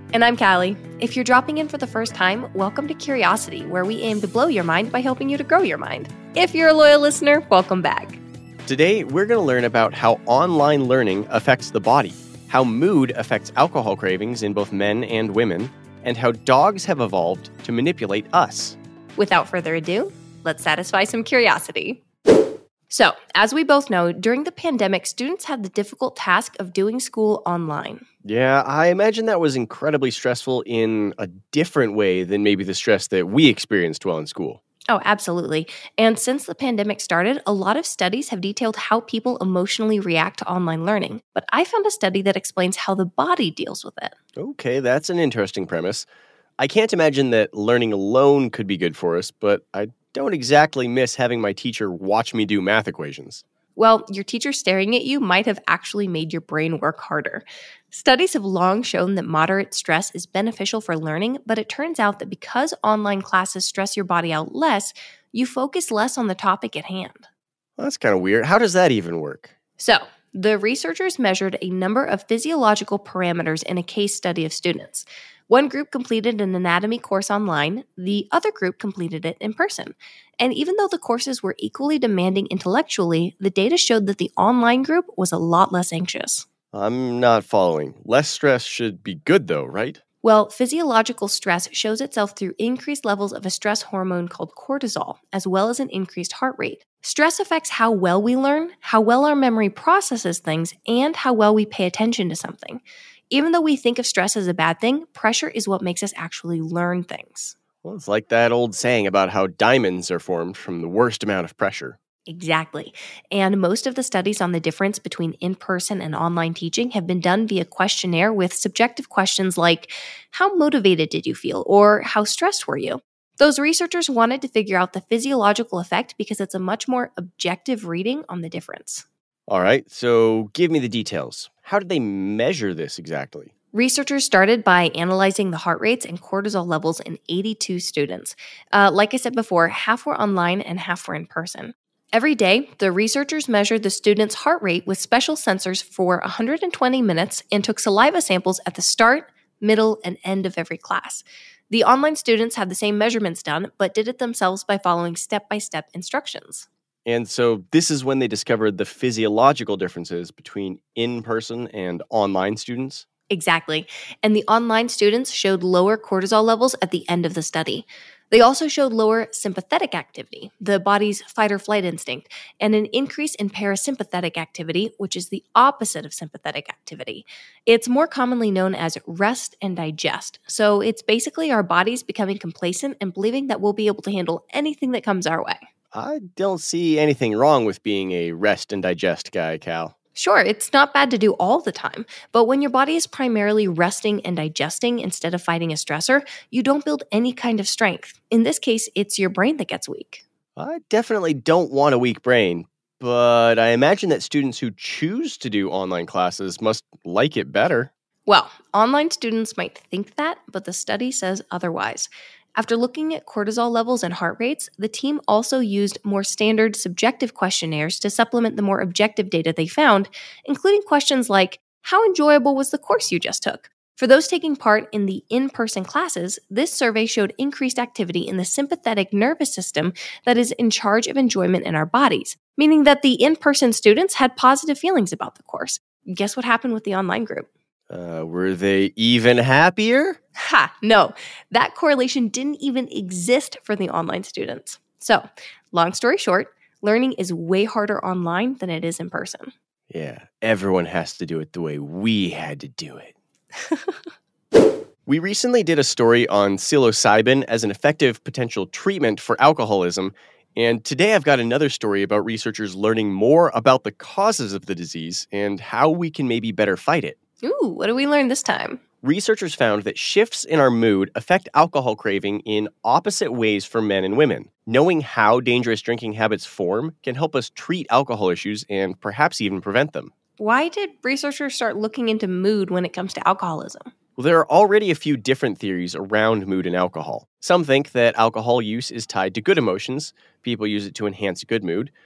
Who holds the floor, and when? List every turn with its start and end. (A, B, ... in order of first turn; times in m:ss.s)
0:00.1-0:08.2 A
0:08.7-0:18.8 B
0:19.2-0:22.0 A
0:22.9-0:28.0 A
0:28.2-0:34.6 B
0:34.9-0:44.1 A
0:44.4-0:46.1 B
0:46.6-0:53.4 B
0:53.8-1:07.2 A
1:07.8-1:09.5 B
1:09.8-1:26.4 A
1:26.7-1:30.0 B
1:30.2-1:47.6 A
1:47.8-1:52.0 B
1:52.3-2:09.0 A
2:09.5-2:13.5 B
2:13.7-2:36.7 A
2:37.1-2:43.1 B
2:43.3-3:05.6 A
3:05.9-3:09.9 B
3:10.1-3:20.2 A
3:20.6-3:27.9 B
3:28.3-3:57.5 A
3:57.9-4:00.2 B
4:00.4-4:09.5 A
4:09.9-4:13.1 B
4:13.6-4:13.9 A
4:15.1-4:27.2 B
4:27.4-4:28.8 A
4:29.0-4:40.1 B
4:40.4-4:43.9 A
4:44.2-4:51.9 B